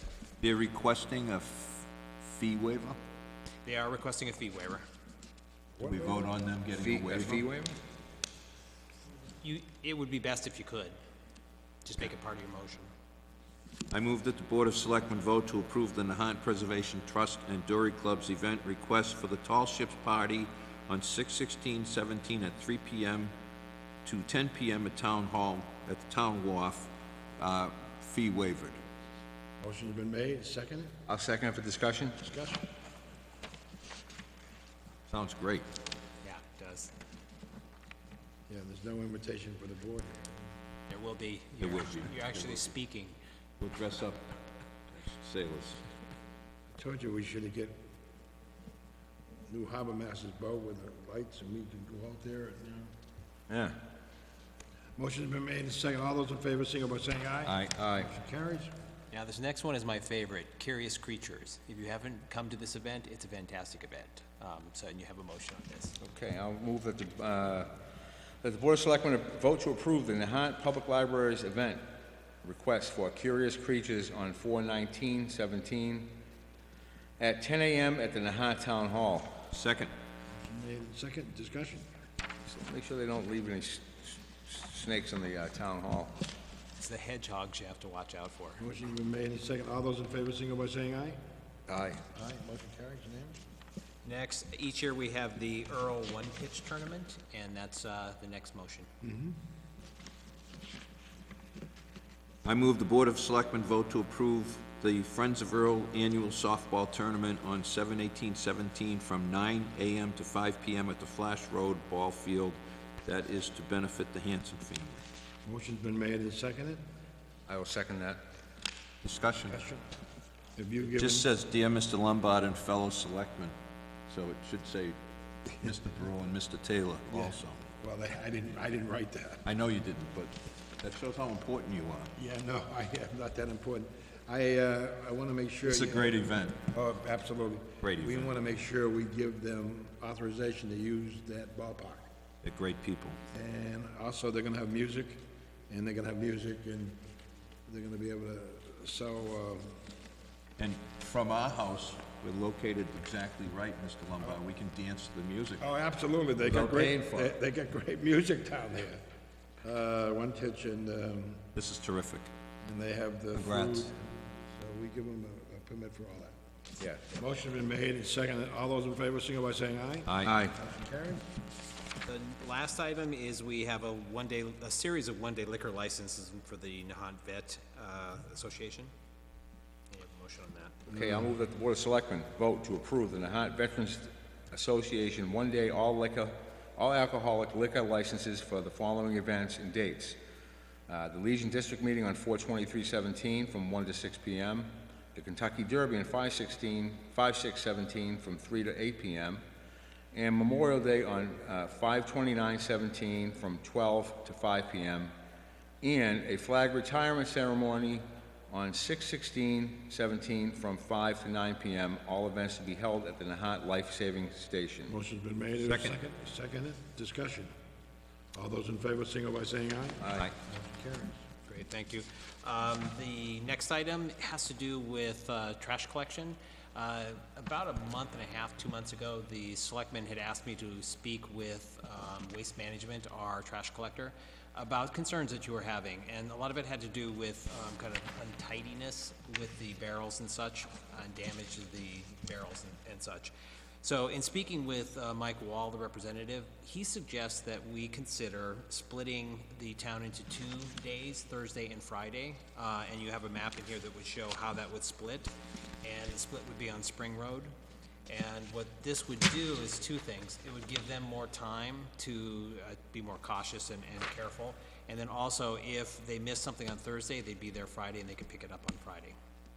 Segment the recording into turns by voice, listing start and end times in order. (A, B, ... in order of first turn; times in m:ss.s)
0:00.4-0:03.0 A
0:03.6-0:04.8 B
0:05.8-0:07.4 A
0:06.8-0:07.8 C
0:09.4-0:11.0 B
0:11.8-0:12.9 B
0:13.9-0:23.3 A
0:24.0-0:28.8 A
0:29.6-0:30.9 D
0:31.1-0:32.2 C
0:32.2-0:32.6 D
0:35.1-0:35.7 A
0:36.2-0:36.9 B
0:38.5-0:40.4 D
0:40.9-0:43.2 B
0:41.6-0:42.7 A
0:43.6-0:44.3 A
0:44.9-0:45.8 A
0:46.7-0:47.8 D
0:49.5-0:52.9 D
0:53.5-0:53.8 C
0:55.0-0:58.7 D
0:57.6-0:58.1 C
0:59.1-1:06.0 B
1:06.0-1:07.7 C
1:08.4-1:11.9 C
1:12.4-1:16.2 C
1:17.2-1:19.4 C
1:19.5-1:19.9 A
1:20.3-1:21.8 D
1:22.5-1:26.2 C
1:26.8-1:28.6 B
1:28.6-1:31.2 D
1:31.7-1:32.0 C
1:32.1-1:33.4 D
1:34.0-1:38.9 B
1:39.0-1:39.4 D
1:42.4-1:55.0 A
1:55.4-1:56.8 D
1:57.5-1:58.2 C
1:59.0-1:59.6 A
1:59.5-1:59.8 D
2:00.6-2:01.3 D
2:00.9-2:03.6 A
2:04.1-2:05.0 A
2:05.5-2:07.6 A
2:07.1-2:09.4 D
2:09.4-2:12.1 A
2:12.2-2:16.1 D
2:15.6-2:16.6 A
2:16.6-2:22.1 D
2:17.8-2:18.3 A
2:22.4-2:23.2 A
2:23.3-2:27.0 D
2:27.7-2:29.8 D
2:30.6-2:35.6 A
2:35.6-2:39.0 D
2:36.4-2:37.3 C
2:39.6-2:41.5 D
2:41.6-2:42.3 A
2:42.6-2:46.3 D
2:43.4-2:43.9 A
2:47.2-2:51.2 D
2:50.1-2:50.4 A
2:50.2-2:50.6 C
2:52.0-2:58.9 B
2:59.9-3:00.9 B
3:00.9-3:10.2 C
3:10.9-3:19.4 C
3:20.1-3:25.1 C
3:25.8-3:35.0 C
3:34.9-3:37.5 D
3:35.6-3:36.0 A
3:38.3-3:41.2 D
3:40.0-3:40.3 C
3:41.5-4:17.6 B
4:18.1-4:29.2 B